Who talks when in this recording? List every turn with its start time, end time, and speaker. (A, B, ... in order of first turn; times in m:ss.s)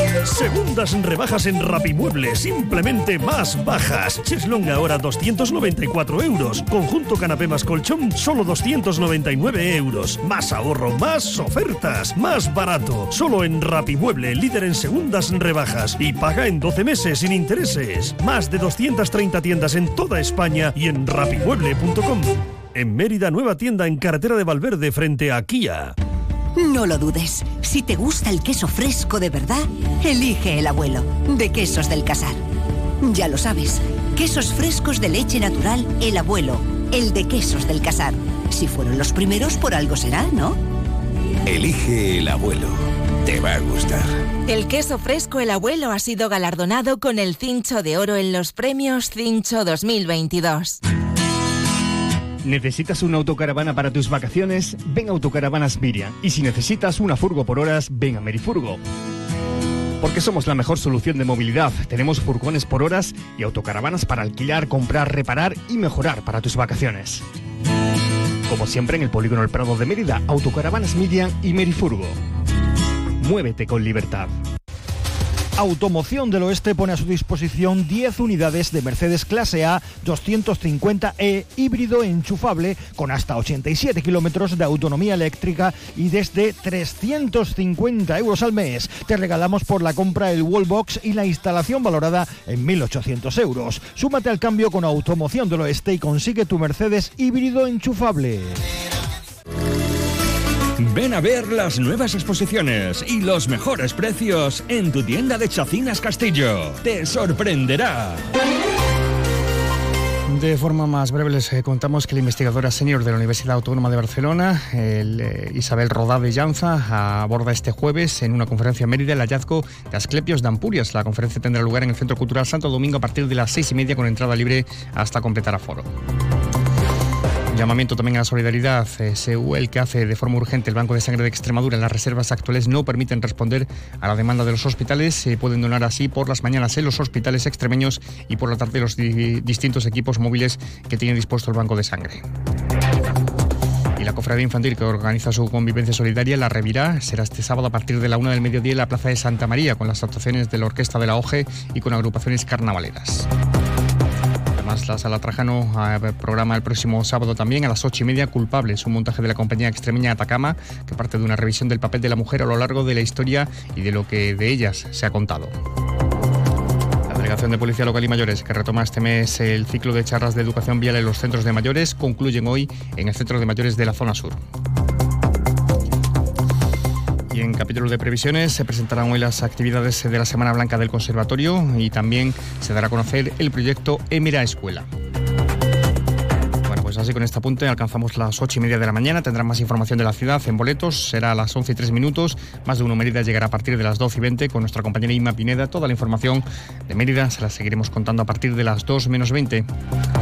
0:00.3-0:25.9 A
0:26.6-0:32.4 B
0:33.0-0:40.6 B
0:41.5-0:42.7 C
0:43.3-0:44.0 C
0:44.5-0:50.8 D
0:52.4-0:58.8 E
1:00.0-1:07.2 E
1:08.5-1:12.2 E
1:13.2-1:14.3 E
1:15.6-1:38.6 F
1:40.8-1:48.2 G
1:50.3-2:05.9 E
2:07.5-2:22.2 E
2:24.0-2:33.3 E
2:34.6-2:45.5 E
2:47.1-2:54.4 E
2:57.3-3:04.9 E
3:06.7-3:19.7 E